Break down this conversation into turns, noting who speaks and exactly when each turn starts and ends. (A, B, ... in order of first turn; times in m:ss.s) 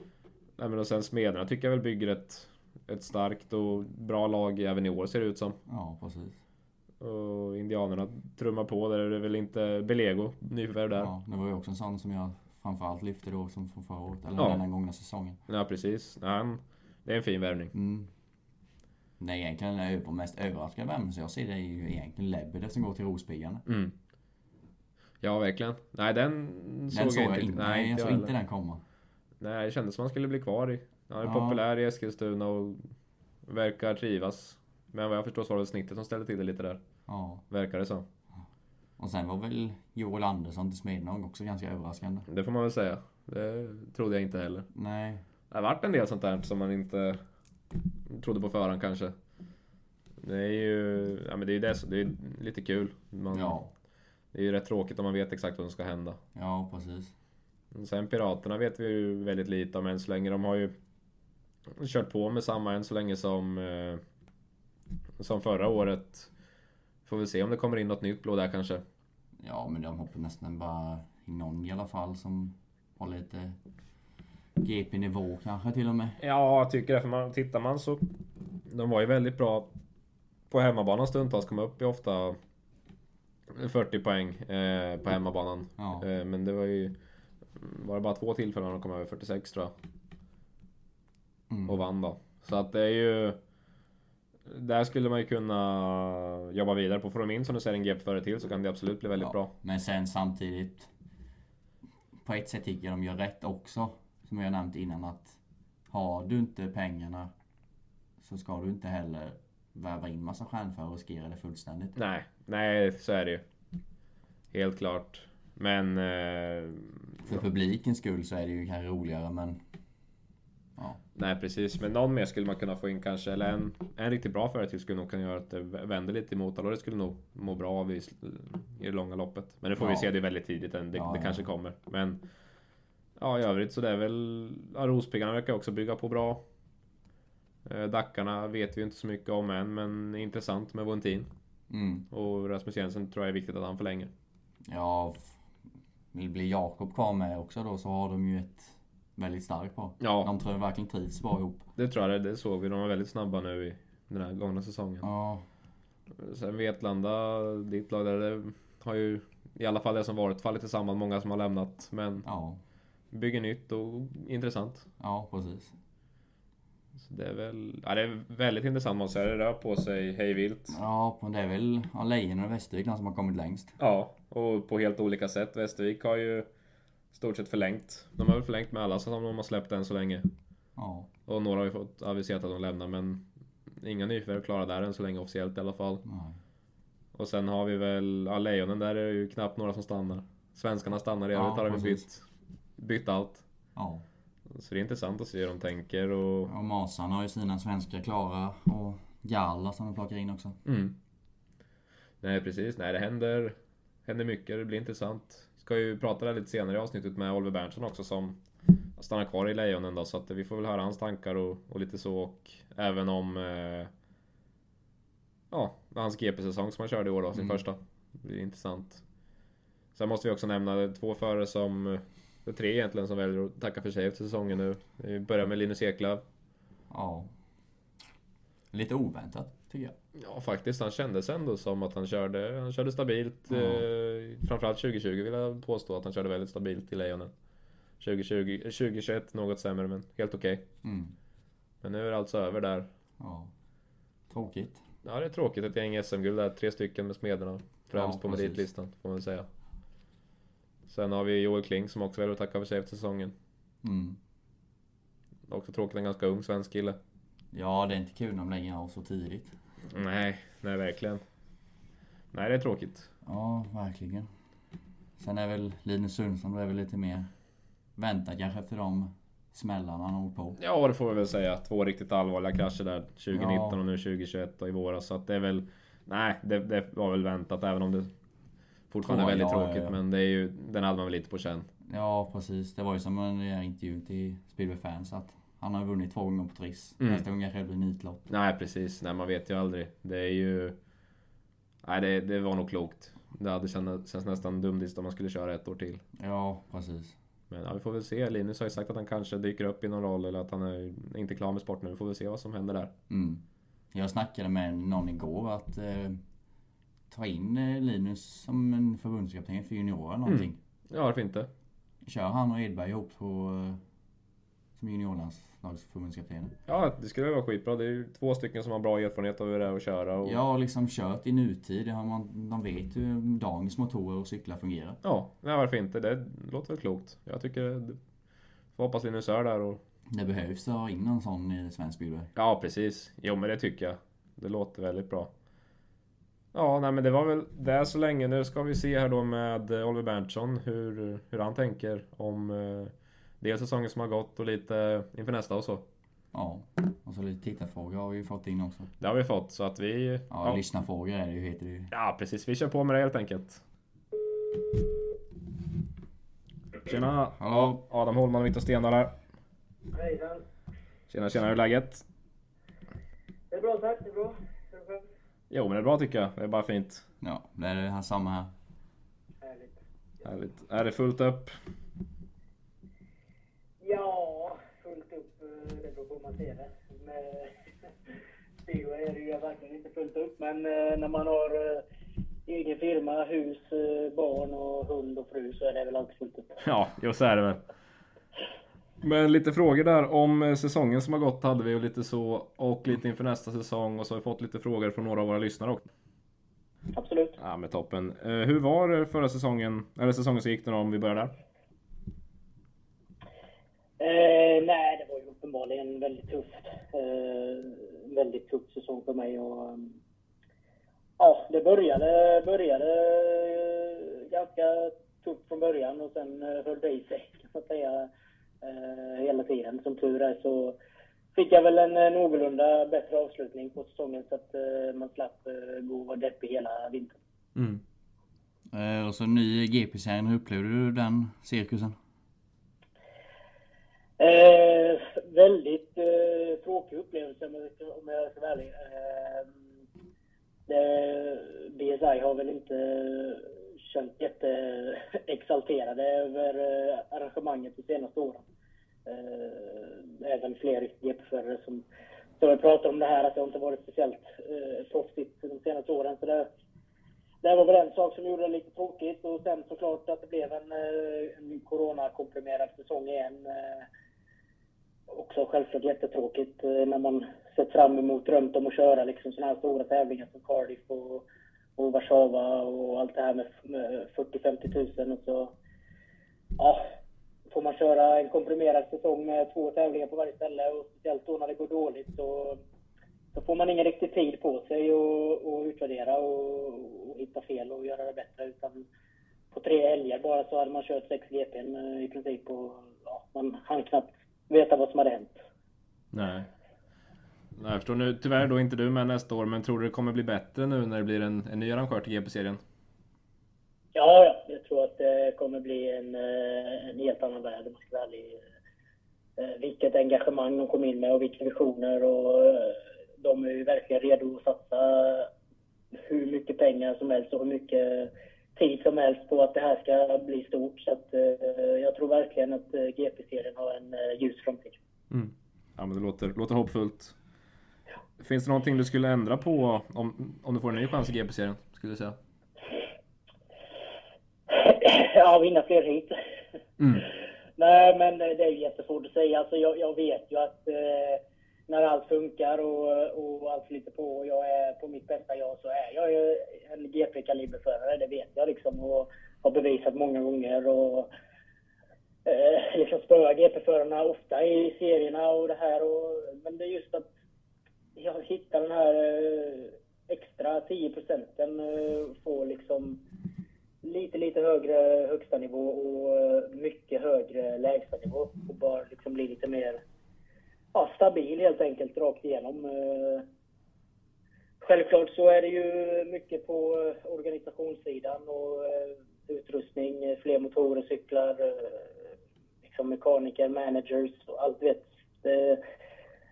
0:00.6-0:05.6 A
0:05.7-0:06.4 B
0:07.0-0:11.1 A
0:11.0-0:15.4 B
0:14.4-0:14.6 A
0:15.5-0:17.7 A
0:17.7-0:18.1 B
0:19.2-0:23.6 B
0:23.6-0:23.9 A
0:25.2-0:28.3 A
0:26.9-0:28.8 B
0:29.4-0:32.9 A
0:31.2-0:31.6 B
0:33.4-0:36.8 A
0:37.1-0:37.4 B
0:37.5-0:38.0 A
0:39.0-0:42.2 B
0:42.3-0:44.7 A
0:44.7-0:45.2 B
0:45.5-0:47.2 A
0:48.1-0:49.1 A
0:50.2-0:53.6 A
0:53.3-0:53.7 B
0:54.3-0:56.2 A
0:56.3-0:57.1 B
0:57.7-1:00.7 A
1:01.7-1:04.0 A
1:05.2-1:06.3 A
1:07.0-1:08.8 A
1:09.4-1:13.6 B
1:14.6-1:16.2 B
1:16.2-1:18.1 A
1:18.7-1:19.7 A
1:20.5-1:22.4 A
1:23.5-1:27.0 A
1:25.8-1:26.0 B
1:27.5-1:29.7 A
1:31.5-1:31.8 B
1:31.7-1:33.4 A
1:34.4-1:39.5 A
1:39.2-1:40.9 B
1:42.2-1:45.4 B
1:45.9-1:47.3 B
1:48.2-1:52.0 B
1:52.0-1:53.4 A
1:54.5-1:57.4 A
1:57.2-1:59.6 B
2:01.1-2:12.2 A
2:09.8-2:10.1 B
2:10.9-2:11.5 B
2:13.2-2:16.4 A
2:17.6-2:21.3 A
2:21.7-2:22.0 B
2:22.1-2:24.1 A
2:24.7-2:25.4 B
2:26.1-2:31.6 B
2:30.0-2:30.3 A
2:31.8-2:35.0 A
2:35.0-2:35.4 B
2:36.2-2:42.2 A
2:42.2-2:42.6 B
2:43.1-2:44.9 A
2:45.0-2:45.7 B
2:47.0-2:50.8 A
2:50.7-2:53.8 B
2:53.8-2:56.4 A
2:57.1-3:00.3 A
3:00.8-3:01.1 B
3:01.3-3:03.2 A
3:03.8-3:06.0 A
3:06.0-3:06.4 B
3:07.1-3:12.2 A
3:11.3-3:12.0 B
3:12.8-3:13.4 A
3:13.8-3:14.0 B
3:14.5-3:16.5 A
3:16.5-3:20.6 B
3:20.6-3:21.0 A
3:22.2-3:28.4 A
3:29.0-3:33.9 A
3:35.5-3:39.0 A
3:37.3-3:37.6 B
3:39.9-3:46.2 A
3:46.9-3:47.3 B
3:48.7-3:49.9 B
3:50.2-3:57.3 A
3:53.5-3:53.8 B
3:58.0-4:00.6 A
4:00.8-4:01.1 B
4:01.8-4:02.9 A
4:03.2-4:03.5 B
4:04.3-4:04.8 B
4:05.0-4:09.5 A
4:07.9-4:08.6 B
4:10.9-4:13.3 A
4:13.8-4:14.2 B
4:15.5-4:17.0 A
4:17.5-4:19.6 B
4:19.9-4:21.2 A
4:22.3-4:23.1 A
4:23.2-4:24.3 B
4:25.2-4:27.3 B
4:28.0-4:30.6 B
4:30.6-4:38.1 A
4:33.3-4:33.8 B
4:38.9-4:41.7 A
4:39.0-4:40.0 B
4:41.8-4:48.2 B
4:48.3-4:50.8 A
4:51.8-4:56.0 A
4:56.2-4:57.2 B
4:57.5-5:02.9 A
5:03.1-5:06.2 B
5:07.1-5:10.6 B
5:10.3-5:11.5 A
5:12.0-5:13.8 B
5:14.8-5:16.5 B
5:16.7-5:20.4 A
5:20.2-5:25.0 B
5:25.0-5:28.0 A
5:28.7-5:29.8 A
5:30.1-5:32.3 B
5:32.4-5:35.3 A
5:36.5-5:45.8 A
5:46.3-5:48.9 B
5:49.0-5:50.6 A
5:50.3-5:51.9 B
5:51.9-5:53.6 A
5:56.8-5:59.1 A
5:57.4-5:57.8 B
5:59.9-6:00.4 C
6:01.1-6:02.0 A
6:03.5-6:05.0 C
6:05.5-6:07.0 A
6:07.2-6:08.5 B
6:09.4-6:09.8 C
6:10.2-6:11.6 A
6:13.8-6:18.1 C
6:18.6-6:21.8 C
6:22.4-6:26.6 C
6:26.6-6:27.6 A
6:29.0-6:35.8 A
6:36.9-6:37.4 C
6:37.4-6:41.3 A
6:44.0-6:49.9 C
6:51.2-6:58.1 C
6:58.6-7:00.8 C
7:01.3-7:07.2 C
7:07.6-7:07.8 A
7:08.7-7:12.0 B
7:14.2-7:19.5 C
7:20.7-7:28.4 C
7:29.0-7:31.8 C
7:32.4-7:36.5 C
7:37.4-7:43.9 C
7:45.1-7:51.2 C
7:51.8-7:55.5 C
7:56.6-7:56.8 C
7:57.5-8:02.6 C
8:03.3-8:08.8 C
8:09.5-8:15.4 C
8:16.1-8:16.5 A
8:17.6-8:22.6 A
8:23.9-8:28.4 C
8:29.4-8:35.3 C
8:35.9-8:44.8 C
8:45.1-8:47.1 A
8:48.2-8:52.2 A
8:54.5-8:56.2 C
8:56.8-8:57.0 A
8:57.6-9:11.1 C
9:12.2-9:17.1 C
9:17.9-9:23.0 C
9:23.8-9:29.8 C
9:30.7-9:33.2 C
9:34.6-9:42.0 C
9:42.6-9:45.6 C